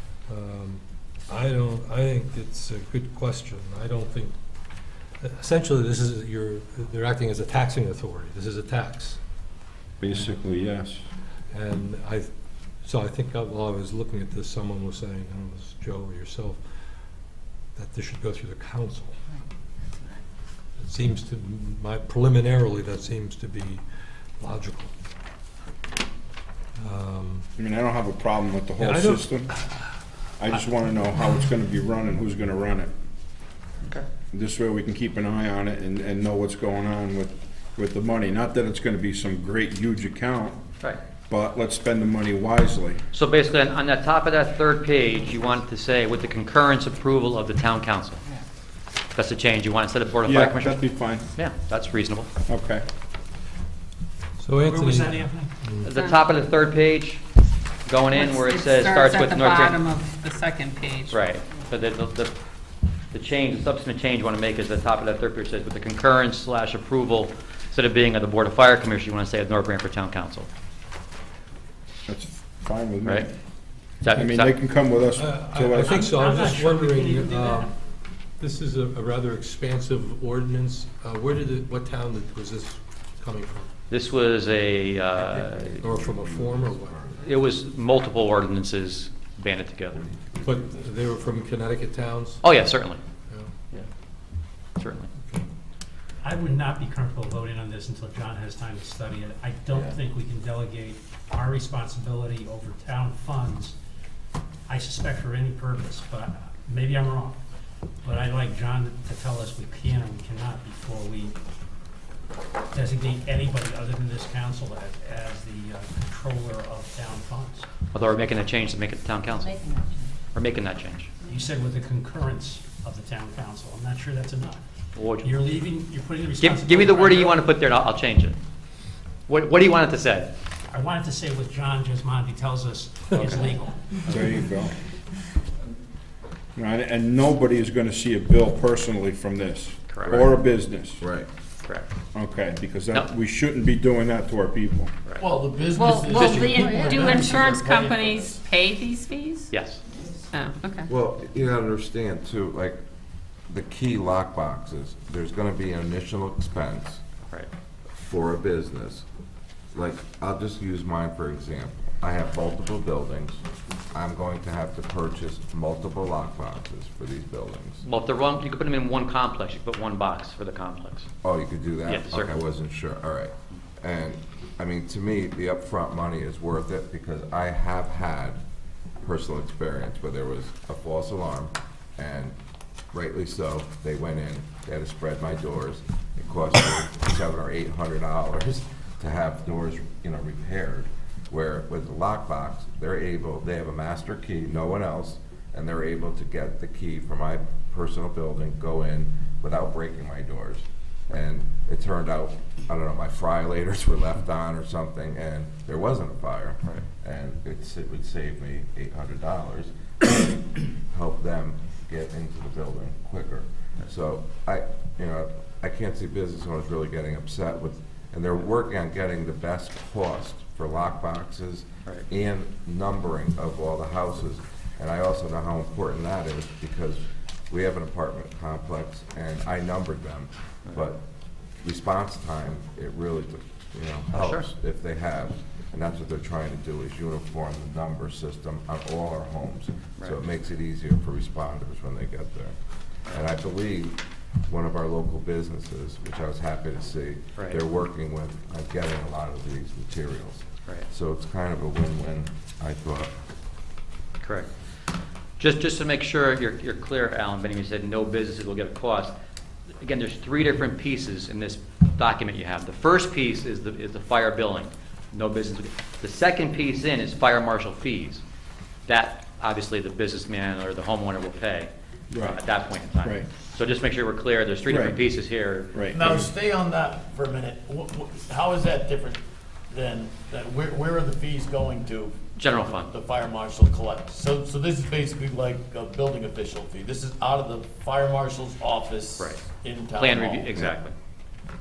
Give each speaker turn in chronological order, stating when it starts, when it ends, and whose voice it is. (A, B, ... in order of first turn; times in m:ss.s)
0:00.3-0:04.3 A
0:05.2-0:09.2 A
0:10.0-0:11.0 B
0:11.5-0:12.3 A
0:12.8-0:16.6 A
0:17.8-0:19.2 A
0:20.8-0:23.8 A
0:24.4-0:24.9 A
0:26.8-0:27.5 A
0:27.6-0:29.5 B
0:28.8-0:29.9 A
0:30.4-0:32.9 B
0:34.3-0:40.6 B
0:41.3-0:43.0 B
0:43.1-0:48.2 C
0:49.1-0:52.3 C
0:50.2-0:51.3 B
0:52.5-0:52.8 B
0:54.4-0:55.8 A
0:54.7-0:55.5 D
0:55.8-0:57.2 C
0:55.9-0:56.3 E
0:57.8-0:59.8 C
0:58.1-1:01.2 E
1:01.1-1:02.3 C
1:03.1-1:10.5 C
1:12.1-1:13.3 B
1:14.0-1:14.5 C
1:14.1-1:16.0 B
1:15.2-1:17.7 A
1:15.8-1:17.7 D
1:18.4-1:23.7 A
1:23.9-1:25.9 C
1:25.2-1:27.4 F
1:25.8-1:27.0 A
1:27.2-1:30.0 C
1:30.0-1:30.5 F
1:30.4-1:32.4 A
1:32.4-1:33.0 C
1:34.8-1:35.1 C
1:36.2-1:43.8 D
1:44.7-1:47.4 D
1:48.0-1:51.4 D
1:52.7-1:57.7 D
1:57.9-1:59.6 C
2:00.3-2:01.1 C
2:01.3-2:04.6 D
2:05.0-2:05.5 C
2:05.2-2:07.4 D
2:06.4-2:08.4 C
2:09.3-2:10.3 C
2:10.7-2:14.3 D
2:13.1-2:13.4 C
2:14.0-2:14.7 B
2:16.6-2:21.0 B
2:19.9-2:20.1 C
2:20.1-2:21.3 F
2:22.1-2:24.9 B
2:25.2-2:28.4 G
2:25.7-2:29.5 E
2:26.1-2:26.9 C
2:29.5-2:29.8 C
2:30.3-2:30.9 E
2:30.8-2:32.8 F
2:33.5-2:37.0 F
2:38.0-2:39.0 F
2:39.7-2:43.4 F
2:43.9-2:47.8 F
2:47.8-2:51.1 C
2:51.2-2:58.4 F
2:51.8-2:52.4 C
2:59.0-3:02.4 F
3:02.9-3:51.0 F
3:51.6-4:02.6 F
3:54.1-3:54.5 C
4:03.1-4:13.1 F
4:07.4-4:07.6 C
4:14.2-4:14.5 C
4:15.4-4:19.1 C
4:19.8-4:28.2 C
4:28.8-4:35.7 C
4:32.1-4:32.4 B
4:34.6-4:35.0 B
4:35.7-4:36.3 B
4:35.9-4:50.6 G
4:42.4-4:42.9 C
4:49.9-4:50.9 C